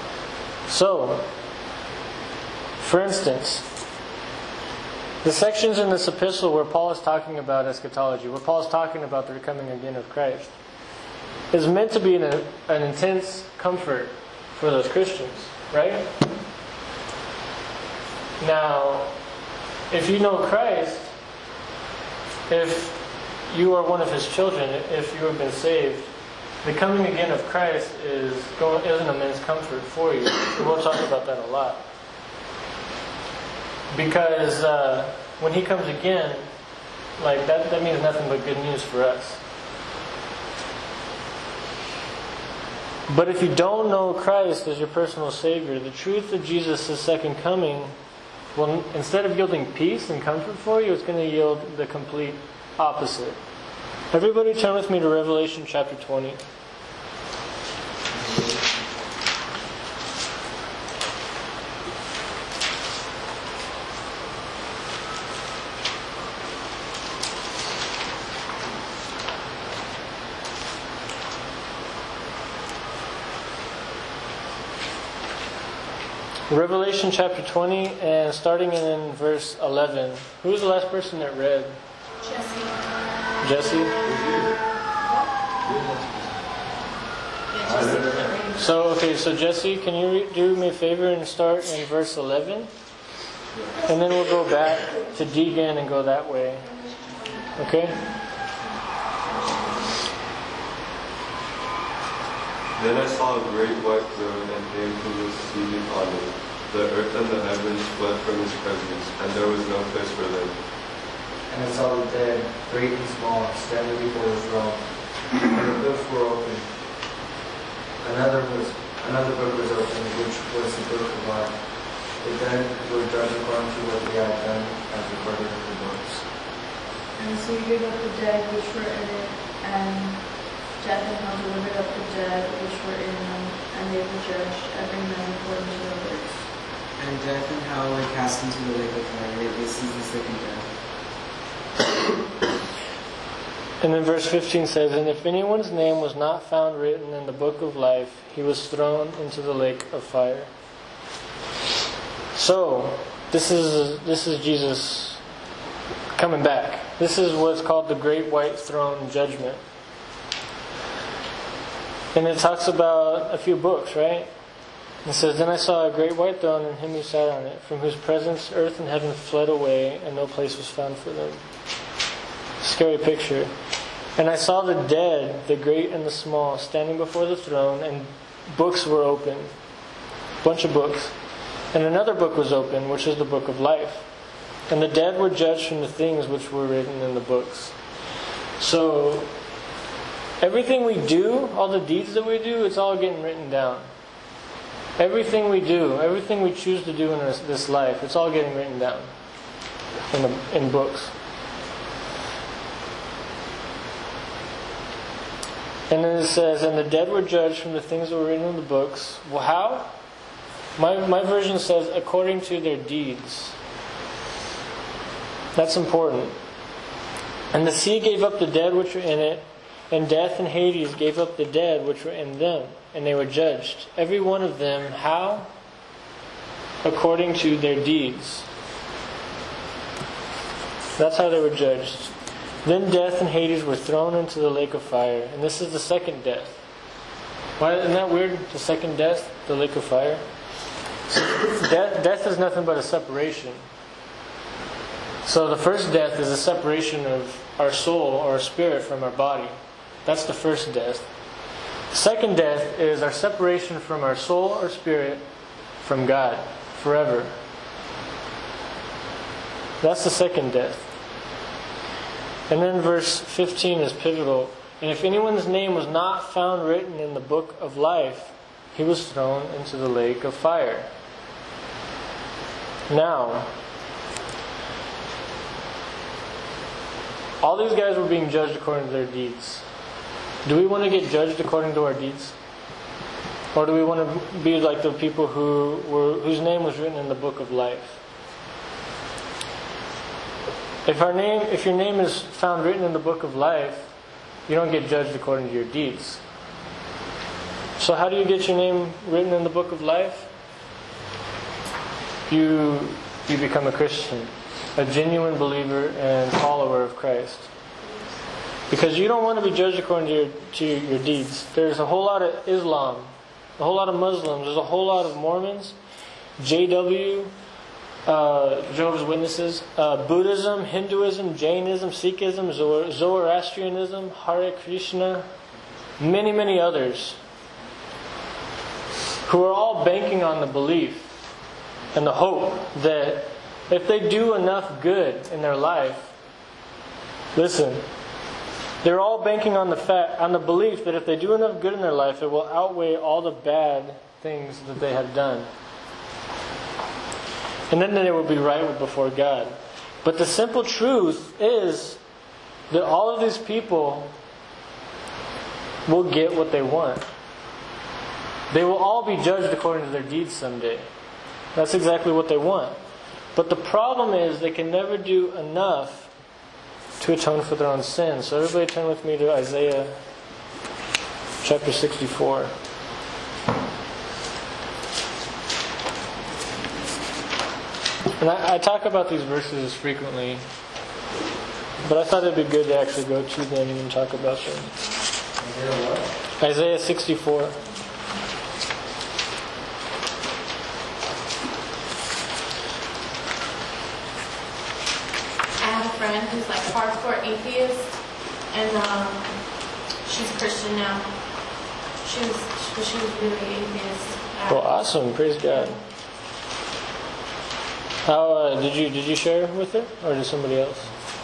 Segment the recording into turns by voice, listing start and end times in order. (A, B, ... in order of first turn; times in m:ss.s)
0:00.7-0:01.3 A
0:02.8-0:03.7 A
0:05.2-0:10.5 A
0:11.5-0:16.2 A
0:18.4-0:19.1 A
0:19.9-0:21.1 A
0:22.5-0:26.1 A
0:26.6-0:31.8 A
0:33.9-0:36.5 A
0:37.2-0:39.4 A
0:43.1-0:47.9 A
0:48.6-0:53.4 A
0:54.1-0:56.4 A
0:58.1-0:58.6 B
1:16.5-1:21.8 A
1:22.2-1:22.9 C
1:23.4-1:24.0 A
1:24.0-1:24.6 D
1:25.7-1:26.4 D
1:27.5-1:28.6 C
1:27.8-1:28.1 D
1:28.6-1:32.7 A
1:33.9-1:36.7 A
1:37.6-1:38.0 A
1:42.8-1:51.0 D
1:51.5-1:56.9 B
1:58.0-2:06.3 B
2:07.2-2:16.5 E
2:17.0-2:20.6 F
2:23.8-2:30.5 A
2:32.4-2:35.2 A
2:36.2-2:39.6 A
2:42.1-2:44.3 A
2:45.0-2:51.4 A
2:52.6-2:53.5 A
2:54.2-2:59.5 A
3:00.4-3:01.2 A
3:01.7-3:04.1 A
3:04.7-3:07.8 A
3:08.6-3:09.3 A
3:10.4-3:13.9 A
3:15.0-3:19.1 A
3:20.1-3:21.1 A
3:25.9-3:30.0 A
3:30.8-3:33.6 A
3:35.6-3:36.4 A
3:37.5-3:45.5 A
3:46.8-3:48.5 A
3:51.0-3:56.6 A
3:57.6-4:00.2 A
4:01.1-4:03.6 A
4:05.2-4:11.1 A
4:11.9-4:15.2 A
4:15.8-4:17.4 A
4:19.8-4:20.9 A
4:22.5-4:30.9 A
4:32.9-4:33.5 A
4:37.4-4:39.6 A
4:40.4-4:42.4 A
4:43.5-4:48.0 A
4:50.8-4:53.9 A
4:54.5-4:56.2 A
4:57.8-5:00.3 A
5:02.3-5:07.5 A
5:08.7-5:15.8 A
5:16.4-5:17.3 A
5:18.1-5:25.3 A
5:26.0-5:27.2 A
5:29.2-5:31.1 A
5:31.9-5:36.1 A
5:37.3-5:37.8 A
5:38.8-5:45.5 A
5:47.7-5:52.0 A
5:52.7-5:54.2 A
5:55.9-5:57.0 A
5:58.5-6:00.9 A
6:01.6-6:02.8 A
6:03.4-6:06.1 A
6:07.0-6:10.0 A
6:11.4-6:12.5 A
6:18.2-6:20.4 A
6:21.8-6:24.7 A
6:25.4-6:26.1 B
6:26.4-6:27.6 A
6:35.6-6:45.8 C
6:44.5-6:45.8 A
6:48.0-6:50.9 A